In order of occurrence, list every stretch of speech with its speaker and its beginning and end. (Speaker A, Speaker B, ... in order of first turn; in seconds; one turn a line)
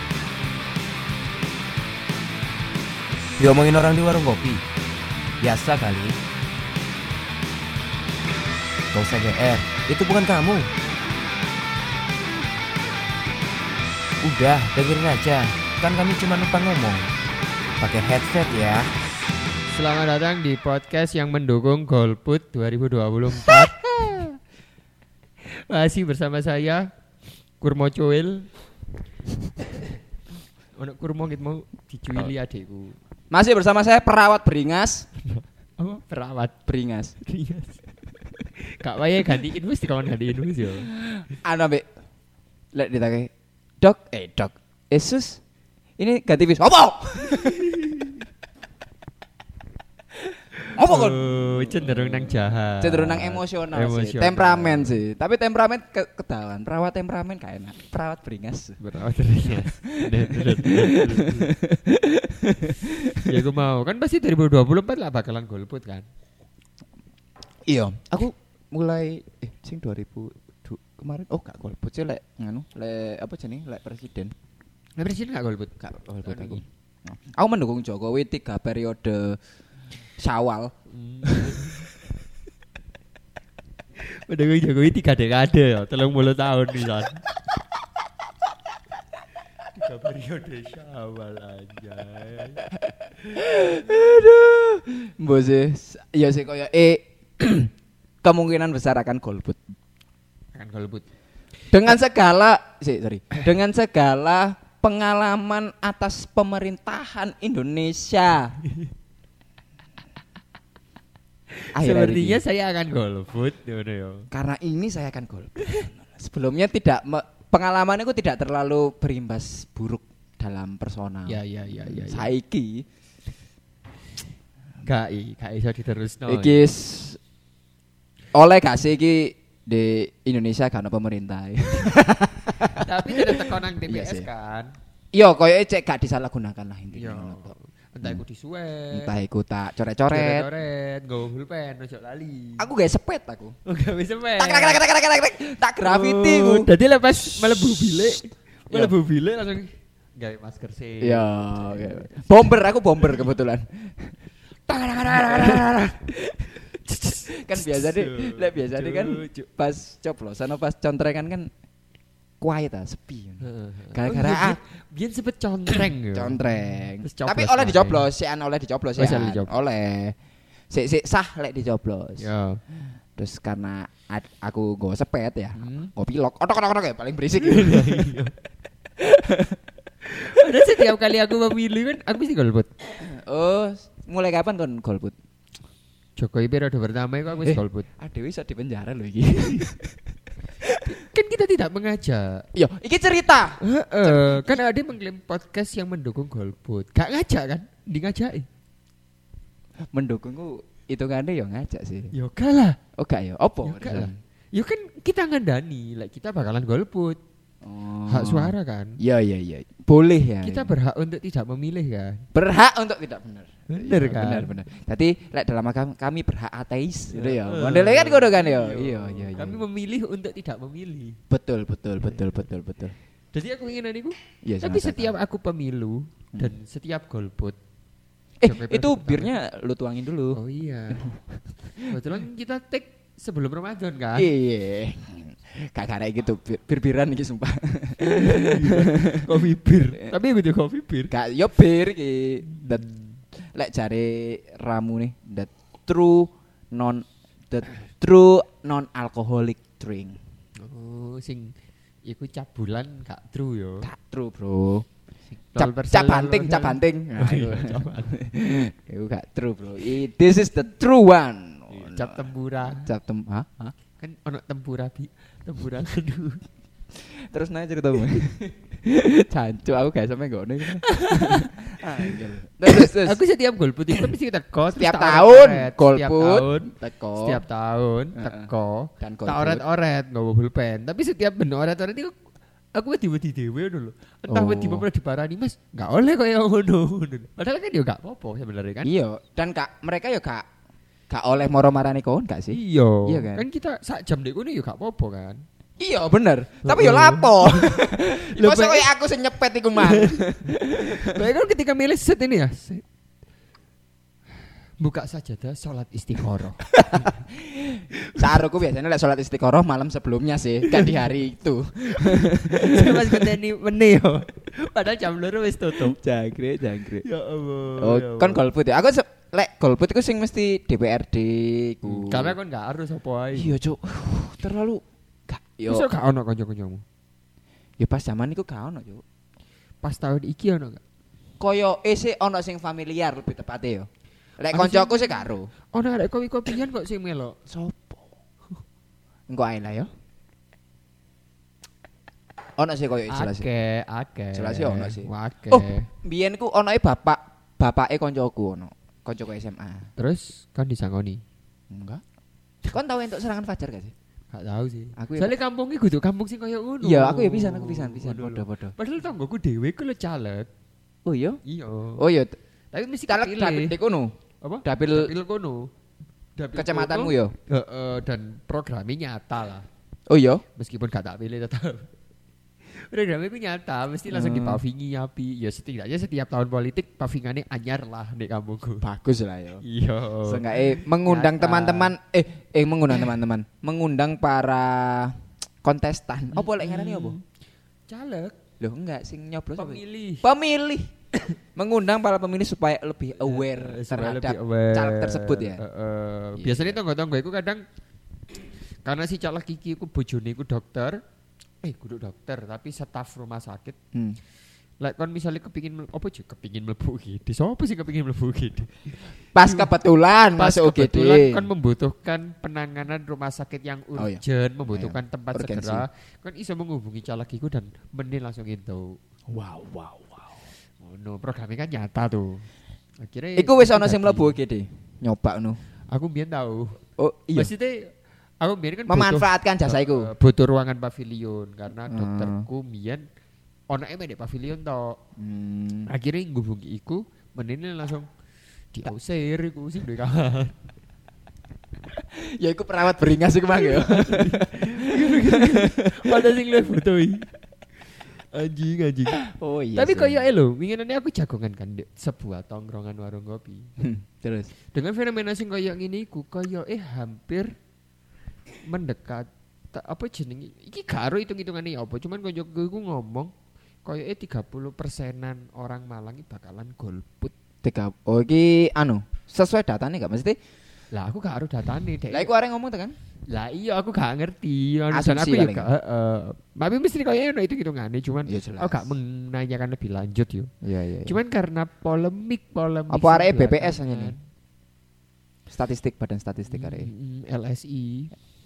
Speaker A: 3.4-4.6
Speaker A: 5.4-6.2
Speaker A: 8.9-10.7
Speaker A: 14.2-17.1
Speaker A: 17.8-18.9
Speaker B: 19.7-24.2
Speaker C: 23.5-24.2
Speaker B: 25.6-26.9
Speaker B: 27.6-28.5
Speaker B: 30.8-33.0
Speaker C: 33.3-35.1
Speaker B: 35.2-36.5
Speaker C: 36.7-37.1
Speaker B: 37.2-37.8
Speaker B: 38.8-40.9
Speaker C: 40.9-41.9
Speaker C: 42.7-45.4
Speaker C: 46.0-47.9
Speaker B: 47.3-48.1
Speaker B: 50.6-55.0
Speaker C: 50.8-58.8
Speaker B: 58.8-61.5
Speaker C: 59.9-63.4
Speaker B: 63.1-66.0
Speaker C: 67.7-74.3
Speaker B: 75.0-76.6
Speaker C: 75.8-79.4
Speaker C: 80.2-80.7
Speaker B: 80.9-81.9
Speaker C: 81.2-81.8
Speaker B: 84.0-87.2
Speaker B: 89.7-92.6
Speaker C: 93.2-97.7
Speaker C: 98.2-99.6
Speaker B: 100.5-101.0
Speaker C: 101.7-108.6
Speaker B: 111.6-114.3
Speaker C: 111.7-112.4
Speaker C: 114.3-122.8
Speaker B: 121.3-122.3
Speaker B: 124.8-126.6
Speaker C: 126.3-127.2
Speaker C: 128.3-134.3
Speaker B: 132.7-134.7
Speaker C: 135.1-137.5
Speaker B: 136.9-139.1
Speaker C: 138.9-140.5
Speaker B: 140.1-142.7
Speaker C: 142.6-143.6
Speaker B: 143.7-144.8
Speaker C: 144.4-146.7
Speaker B: 145.8-152.1
Speaker C: 151.0-154.1
Speaker B: 154.7-159.5
Speaker C: 155.1-155.7
Speaker C: 157.3-161.5
Speaker C: 162.4-164.6
Speaker B: 163.4-168.0
Speaker C: 166.1-170.2
Speaker B: 169.0-169.5
Speaker C: 170.7-172.3
Speaker B: 172.2-172.6
Speaker C: 173.2-178.1
Speaker B: 175.6-175.9
Speaker B: 177.4-178.3
Speaker C: 179.0-179.6
Speaker B: 180.1-182.7
Speaker C: 183.0-185.1
Speaker B: 186.2-187.9
Speaker C: 187.3-190.0
Speaker C: 190.6-190.9
Speaker B: 190.8-192.4
Speaker C: 192.5-194.6
Speaker B: 193.6-198.5
Speaker C: 199.8-202.1
Speaker B: 202.1-202.8
Speaker C: 202.9-204.2
Speaker B: 203.6-207.2
Speaker C: 207.6-210.7
Speaker B: 208.1-209.0
Speaker B: 210.4-212.3
Speaker C: 212.3-219.6
Speaker B: 213.7-214.5
Speaker B: 217.1-221.2
Speaker C: 221.3-222.9
Speaker B: 223.3-227.6
Speaker C: 224.4-225.1
Speaker C: 228.4-230.4
Speaker B: 228.4-229.3
Speaker B: 230.3-231.1
Speaker C: 230.9-231.2
Speaker B: 231.8-234.3
Speaker C: 234.2-239.3
Speaker B: 238.0-241.1
Speaker C: 241.1-242.8
Speaker B: 242.6-242.9
Speaker C: 243.3-250.2
Speaker B: 250.6-251.5
Speaker B: 252.1-253.9
Speaker C: 253.8-254.9
Speaker B: 255.5-258.1
Speaker C: 255.6-263.7
Speaker B: 261.7-262.9
Speaker B: 264.0-266.4
Speaker C: 266.9-273.2
Speaker B: 270.8-271.5
Speaker B: 272.0-282.1
Speaker C: 274.8-277.4
Speaker C: 278.1-278.5
Speaker C: 279.0-279.6
Speaker B: 282.7-288.9
Speaker C: 284.3-284.9
Speaker C: 288.8-290.5
Speaker C: 291.1-293.4
Speaker B: 292.5-295.4
Speaker C: 295.8-301.2
Speaker B: 296.6-298.9
Speaker B: 299.8-302.8
Speaker B: 304.8-307.2
Speaker C: 306.7-313.3
Speaker B: 308.1-308.4
Speaker B: 310.7-310.9
Speaker B: 311.9-316.0
Speaker C: 315.7-317.0
Speaker B: 317.0-318.4
Speaker C: 317.8-322.4
Speaker B: 321.8-323.5
Speaker C: 323.3-325.9
Speaker B: 325.6-326.8
Speaker C: 327.8-329.0
Speaker B: 329.8-330.8
Speaker C: 331.4-333.9
Speaker C: 334.4-335.5
Speaker B: 334.5-337.4
Speaker C: 337.5-338.0
Speaker C: 339.3-339.9
Speaker C: 342.6-343.4
Speaker B: 343.1-345.9
Speaker C: 344.3-349.9
Speaker B: 350.0-351.2
Speaker C: 351.7-352.0
Speaker C: 352.6-353.9
Speaker B: 354.3-360.5
Speaker C: 354.9-355.3
Speaker C: 356.8-358.7
Speaker C: 361.0-361.4
Speaker B: 361.4-362.1
Speaker C: 362.0-362.4
Speaker B: 362.7-363.7
Speaker C: 363.1-365.1
Speaker B: 364.4-365.7
Speaker B: 366.4-369.6
Speaker C: 366.5-367.3
Speaker C: 370.1-370.4
Speaker B: 370.6-371.9
Speaker B: 372.7-378.8
Speaker C: 374.1-374.6
Speaker C: 378.8-379.6
Speaker B: 379.6-381.9
Speaker C: 380.2-387.1
Speaker B: 386.3-387.2
Speaker B: 387.9-388.4
Speaker C: 388.6-390.9
Speaker B: 389.6-390.3
Speaker C: 391.6-395.6
Speaker B: 393.2-397.6
Speaker C: 396.4-396.8
Speaker B: 398.8-401.0
Speaker B: 401.6-403.8
Speaker C: 403.9-404.2
Speaker B: 404.8-409.7
Speaker C: 409.3-411.5
Speaker B: 410.4-419.0
Speaker C: 413.9-415.8
Speaker C: 419.3-420.4
Speaker B: 420.8-422.4
Speaker B: 423.0-424.4
Speaker C: 423.4-425.6
Speaker B: 425.9-426.8
Speaker C: 427.0-427.5
Speaker B: 427.3-433.0
Speaker C: 428.9-430.1
Speaker C: 431.9-432.4
Speaker B: 433.7-435.0
Speaker C: 435.2-435.9
Speaker B: 435.9-438.1
Speaker B: 438.7-440.6
Speaker C: 442.1-446.2
Speaker B: 443.5-447.3
Speaker B: 448.3-449.2
Speaker C: 449.2-450.2
Speaker B: 449.7-453.7
Speaker C: 453.8-454.5
Speaker B: 454.7-457.5
Speaker B: 458.7-463.3
Speaker B: 463.8-467.3
Speaker C: 467.6-470.4
Speaker B: 470.9-472.3
Speaker C: 472.1-472.9
Speaker B: 473.3-480.5
Speaker C: 474.9-475.7
Speaker C: 478.3-478.9
Speaker C: 480.6-481.1
Speaker B: 481.0-484.2
Speaker C: 482.9-484.1
Speaker C: 485.5-486.9
Speaker B: 486.5-488.1